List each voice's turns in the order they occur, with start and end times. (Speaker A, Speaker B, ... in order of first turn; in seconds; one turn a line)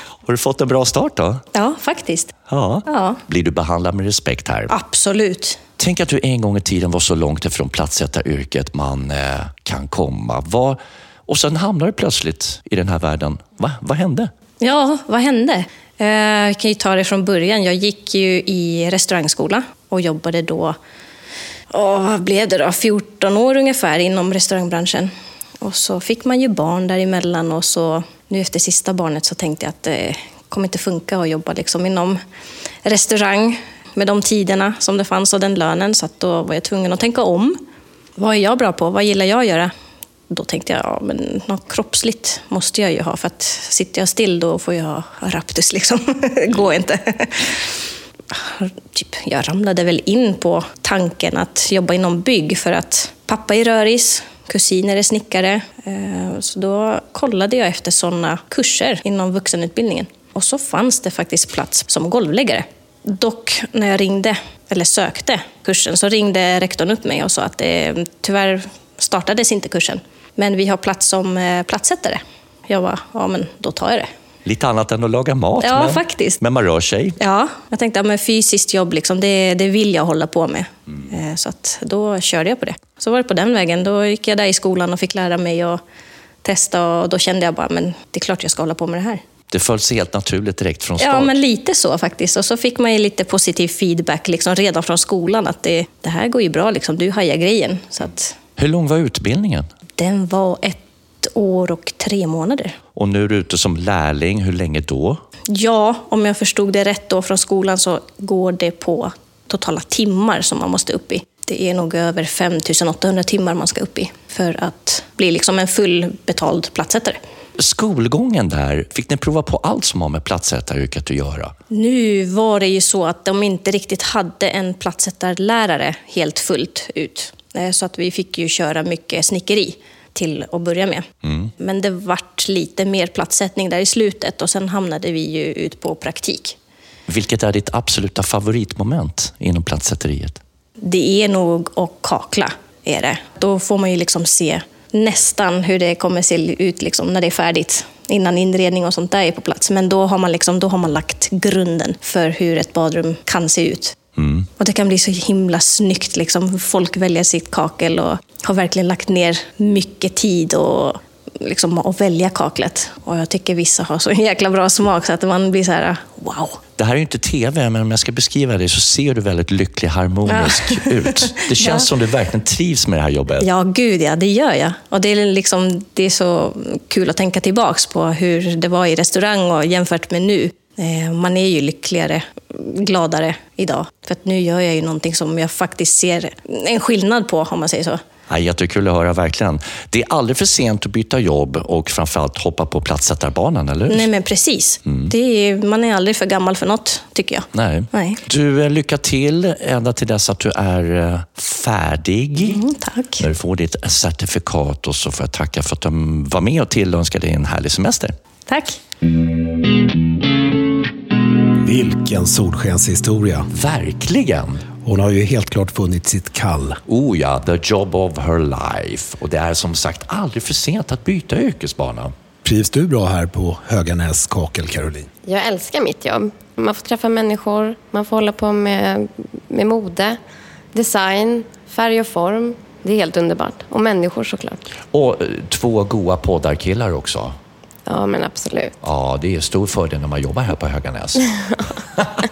Speaker A: 0.2-1.4
Speaker B: 1.5-2.3
Speaker A: 2.5-4.7
Speaker B: 2.9-3.2
Speaker B: 4.7-5.6
Speaker A: 5.8-14.3
Speaker B: 14.6-20.8
Speaker B: 21.7-32.2
Speaker B: 32.8-37.6
Speaker B: 38.2-39.7
Speaker B: 40.3-74.1
Speaker A: 74.4-77.2
Speaker B: 75.6-76.4
Speaker B: 77.2-85.8
Speaker B: 86.4-89.2
Speaker A: 89.5-91.4
Speaker B: 91.0-98.3
Speaker A: 98.6-99.7
Speaker B: 100.0-102.8
Speaker A: 102.9-105.2
Speaker B: 105.5-117.2
Speaker A: 117.6-121.5
Speaker B: 121.7-131.1
Speaker A: 131.2-131.5
Speaker B: 131.6-136.6
Speaker A: 137.1-140.4
Speaker B: 140.8-154.0
Speaker A: 154.2-154.5
Speaker B: 154.6-166.6
Speaker A: 166.8-173.5
Speaker B: 170.3-171.9
Speaker B: 173.4-188.0
Speaker A: 188.3-194.1
Speaker B: 193.9-198.2
Speaker A: 194.8-195.1
Speaker A: 197.5-202.6
Speaker B: 202.4-203.2
Speaker A: 203.2-208.1
Speaker B: 208.5-208.8
Speaker C: 211.6-213.5
Speaker A: 213.5-214.6
Speaker C: 214.8-216.8
Speaker A: 216.9-222.1
Speaker C: 222.4-225.1
Speaker D: 225.2-230.2
Speaker D: 230.7-234.7
Speaker A: 234.9-237.3
Speaker D: 237.8-238.7
Speaker A: 238.8-241.3